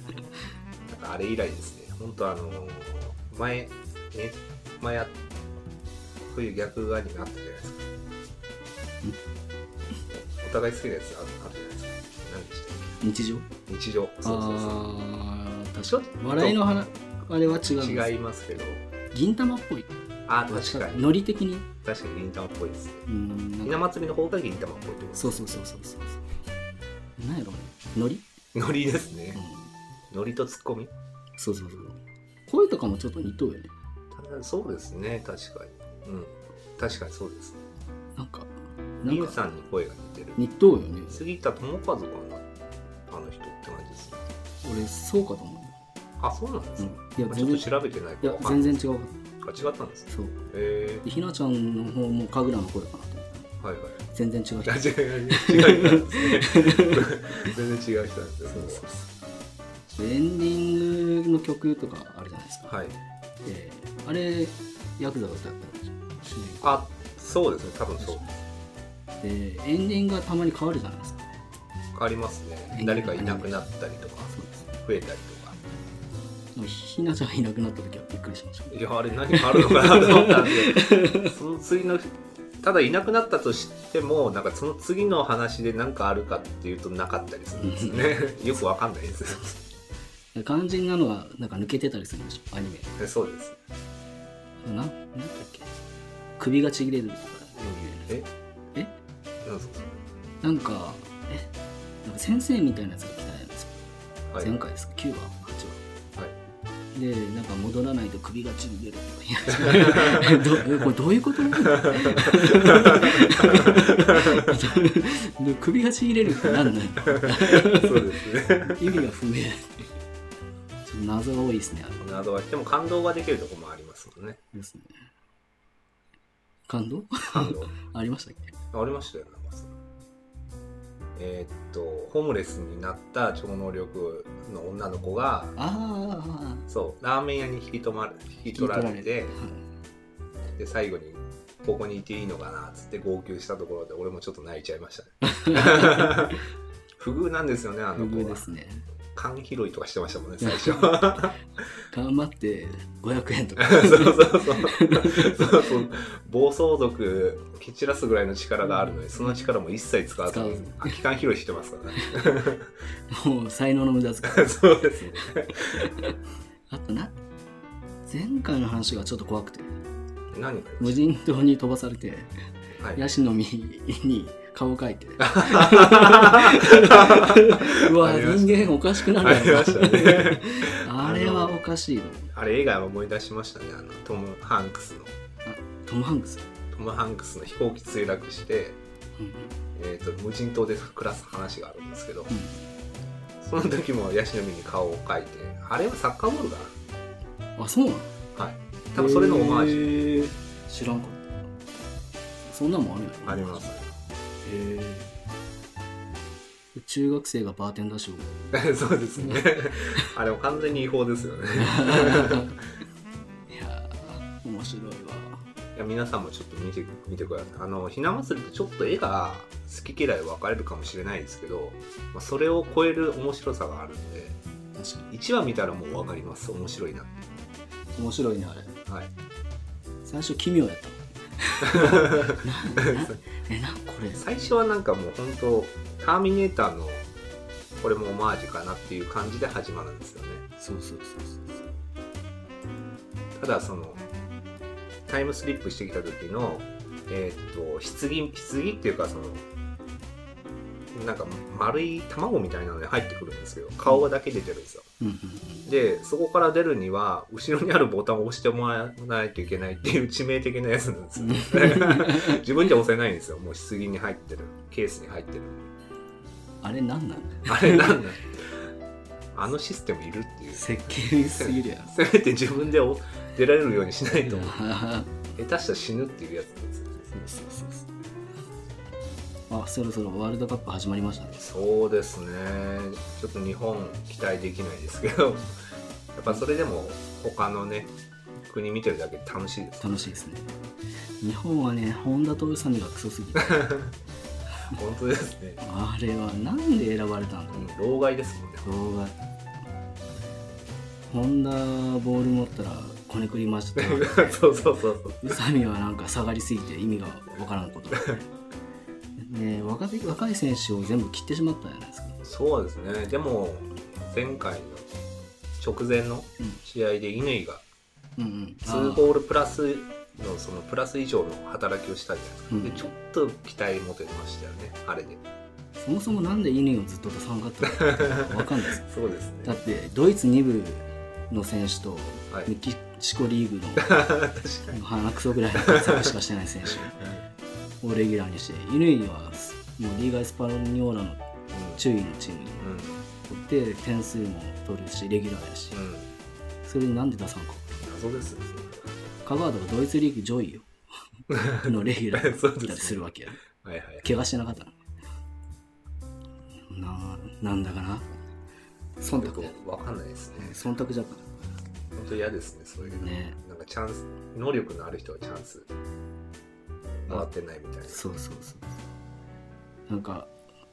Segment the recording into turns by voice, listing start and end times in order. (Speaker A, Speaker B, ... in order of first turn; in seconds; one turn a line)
Speaker A: 0.9-5.1
Speaker A: 6.3-7.8
Speaker A: 10.1-13.0
Speaker B: 13.0-13.5
Speaker A: 13.7-14.8
Speaker B: 14.2-18.1
Speaker A: 15.9-16.6
Speaker A: 17.6-18.9
Speaker B: 19.1-19.9
Speaker A: 20.3-21.1
Speaker B: 20.5-21.7
Speaker A: 21.8-23.0
Speaker B: 23.1-23.8
Speaker A: 23.6-25.6
Speaker B: 25.1-26.2
Speaker B: 27.2-28.2
Speaker A: 28.5-29.4
Speaker B: 29.3-29.7
Speaker A: 30.1-30.9
Speaker B: 31.4-33.7
Speaker A: 34.1-37.6
Speaker B: 38.1-38.5
Speaker B: 39.0-39.4
Speaker A: 39.0-40.4
Speaker B: 40.4-41.2
Speaker A: 41.1-42.5
Speaker A: 43.1-44.2
Speaker B: 44.6-45.8
Speaker A: 46.2-48.8
Speaker B: 46.8-47.7
Speaker B: 48.2-49.2
Speaker A: 49.4-51.0
Speaker B: 50.1-50.4
Speaker B: 51.0-53.5
Speaker A: 53.6-54.0
Speaker B: 54.1-57.1
Speaker A: 54.6-58.9
Speaker B: 58.5-59.1
Speaker B: 60.0-62.7
Speaker A: 62.7-63.0
Speaker B: 63.4-66.8
Speaker A: 66.6-68.3
Speaker B: 68.0-68.2
Speaker B: 69.2-71.3
Speaker A: 71.9-75.6
Speaker B: 72.7-73.5
Speaker B: 74.3-74.7
Speaker B: 76.5-81.3
Speaker A: 78.7-89.6
Speaker B: 87.6-88.3
Speaker B: 90.3-92.9
Speaker A: 93.0-93.6
Speaker B: 94.6-95.7
Speaker B: 96.4-98.2
Speaker A: 99.4-100.0
Speaker B: 100.4-101.5
Speaker B: 102.0-103.8
Speaker A: 104.3-104.6
Speaker B: 104.4-105.8
Speaker B: 106.9-119.9
Speaker A: 109.6-110.4
Speaker A: 111.7-114.5
Speaker A: 117.1-119.0
Speaker B: 120.8-122.0
Speaker A: 122.0-124.4
Speaker B: 124.5-124.9
Speaker B: 126.7-128.5
Speaker A: 127.3-127.7
Speaker A: 128.7-129.7
Speaker A: 131.2-135.6
Speaker B: 135.6-136.7
Speaker A: 136.7-139.4
Speaker B: 138.5-139.6
Speaker A: 140.6-146.4
Speaker B: 145.2-146.3
Speaker A: 147.0-148.4
Speaker B: 147.9-148.8
Speaker A: 149.1-151.4
Speaker B: 150.4-151.1
Speaker B: 151.9-155.8
Speaker A: 153.6-162.7
Speaker B: 158.6-159.3
Speaker B: 160.2-160.9
Speaker B: 163.1-164.6
Speaker A: 164.2-166.1
Speaker B: 165.7-166.1
Speaker B: 166.7-167.2
Speaker B: 168.1-169.7
Speaker A: 170.3-171.0
Speaker B: 170.8-172.3
Speaker A: 172.8-173.0
Speaker B: 172.9-182.3
Speaker A: 175.3-181.6
Speaker A: 182.3-185.1
Speaker B: 185.4-186.4
Speaker A: 186.7-188.8
Speaker B: 189.2-189.5
Speaker A: 189.7-192.3
Speaker B: 192.3-192.6
Speaker A: 193.4-196.8
Speaker B: 197.6-198.1
Speaker A: 198.3-200.2
Speaker B: 198.9-201.5
Speaker B: 202.4-203.7
Speaker A: 203.2-203.9
Speaker B: 204.4-205.1
Speaker B: 206.7-208.5
Speaker A: 208.5-212.5
Speaker B: 209.2-209.4
Speaker B: 211.6-212.6
Speaker B: 213.5-215.4
Speaker A: 215.7-224.4
Speaker B: 224.8-225.1
Speaker A: 225.1-227.3
Speaker B: 227.9-228.8
Speaker B: 230.0-234.2
Speaker A: 231.7-233.2
Speaker A: 234.1-237.1
Speaker A: 237.8-240.4
Speaker B: 240.6-241.7
Speaker A: 243.3-244.0
Speaker A: 245.1-249.4
Speaker A: 250.9-254.9
Speaker B: 255.0-255.6
Speaker A: 255.6-265.7
Speaker B: 261.2-262.4
Speaker B: 266.6-268.0
Speaker A: 267.4-268.6
Speaker A: 269.3-274.6
Speaker B: 270.5-271.9
Speaker B: 274.2-275.1
Speaker A: 275.3-277.1
Speaker B: 277.1-277.9
Speaker B: 279.5-281.4
Speaker A: 281.4-285.5
Speaker A: 286.1-287.9
Speaker A: 288.4-290.2
Speaker B: 289.8-290.5
Speaker B: 291.2-293.7
Speaker A: 293.4-293.9
Speaker A: 294.7-295.6
Speaker B: 295.6-297.7
Speaker A: 297.5-298.7
Speaker B: 298.6-299.1
Speaker B: 301.1-308.2
Speaker A: 303.8-305.4
Speaker B: 309.2-312.2
Speaker A: 312.2-314.9
Speaker A: 315.6-317.6
Speaker B: 318.2-319.1
Speaker A: 318.6-325.2
Speaker B: 322.5-322.9
Speaker B: 325.8-328.8
Speaker A: 327.7-329.6
Speaker B: 329.4-334.1
Speaker A: 333.8-334.8
Speaker B: 334.7-337.0
Speaker A: 335.6-336.1
Speaker A: 336.7-337.2
Speaker B: 337.8-341.2
Speaker A: 341.5-341.8
Speaker B: 341.7-342.7
Speaker A: 342.6-343.0
Speaker B: 343.3-345.8
Speaker A: 345.7-346.1
Speaker B: 346.6-347.7
Speaker A: 347.8-348.9
Speaker B: 349.2-350.7
Speaker A: 351.3-354.1
Speaker B: 351.6-353.4
Speaker B: 354.0-354.8
Speaker B: 356.7-358.2
Speaker B: 359.0-359.5
Speaker A: 359.1-360.6
Speaker B: 360.4-361.3
Speaker A: 361.9-365.7
Speaker B: 362.8-363.4
Speaker A: 367.1-368.1
Speaker B: 367.9-368.8
Speaker B: 369.9-370.3